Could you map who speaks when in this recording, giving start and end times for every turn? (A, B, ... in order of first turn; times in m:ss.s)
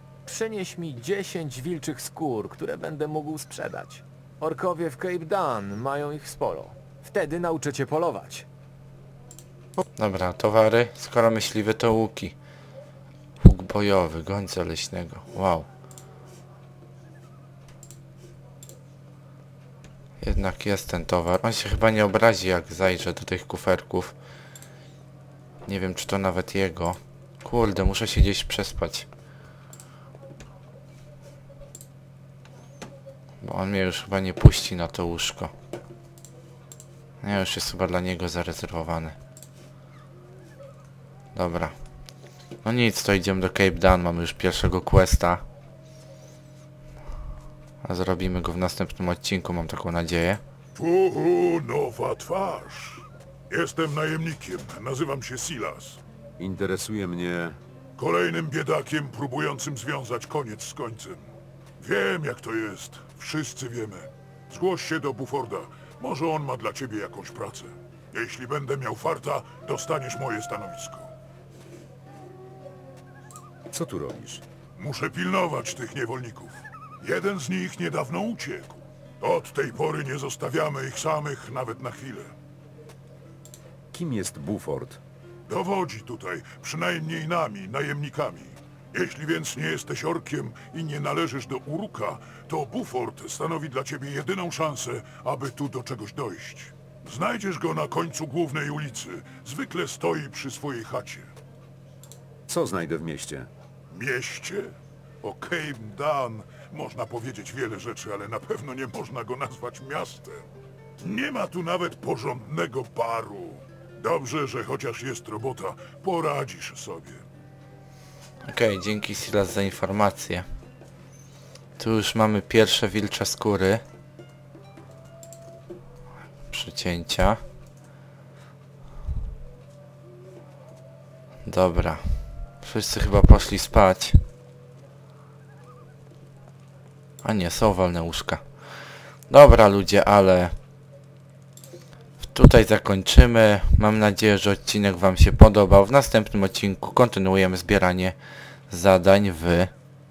0:00.3-0:08.4 A
0:10.0-0:12.4 B
0:13.4-0:15.7 B
0:20.2-0:24.1 B
0:25.7-0:29.1 B
0:33.4-0:35.5 B
0:37.2-0:39.2 B
0:41.4-0:41.8 B
0:42.6-0:45.4 B
0:47.8-0:50.4 B
0:50.8-0:56.0 C
0:56.4-0:57.6 D
0:58.0-1:01.2 C
1:01.8-1:11.1 C
1:13.7-1:14.4 D
1:14.8-1:22.3 C
1:23.9-1:25.0 D
1:25.5-1:41.3 C
1:42.5-1:43.5 D
1:43.9-1:44.7 C
1:45.2-1:50.4 C
1:51.0-1:57.2 C
1:58.4-2:00.5 B
2:01.8-2:03.8 B
2:06.5-2:07.4 B
2:11.4-2:14.2 B
2:17.2-2:18.4 B
2:19.3-2:20.6 B
2:22.2-2:28.2 B
2:28.7-2:29.7 B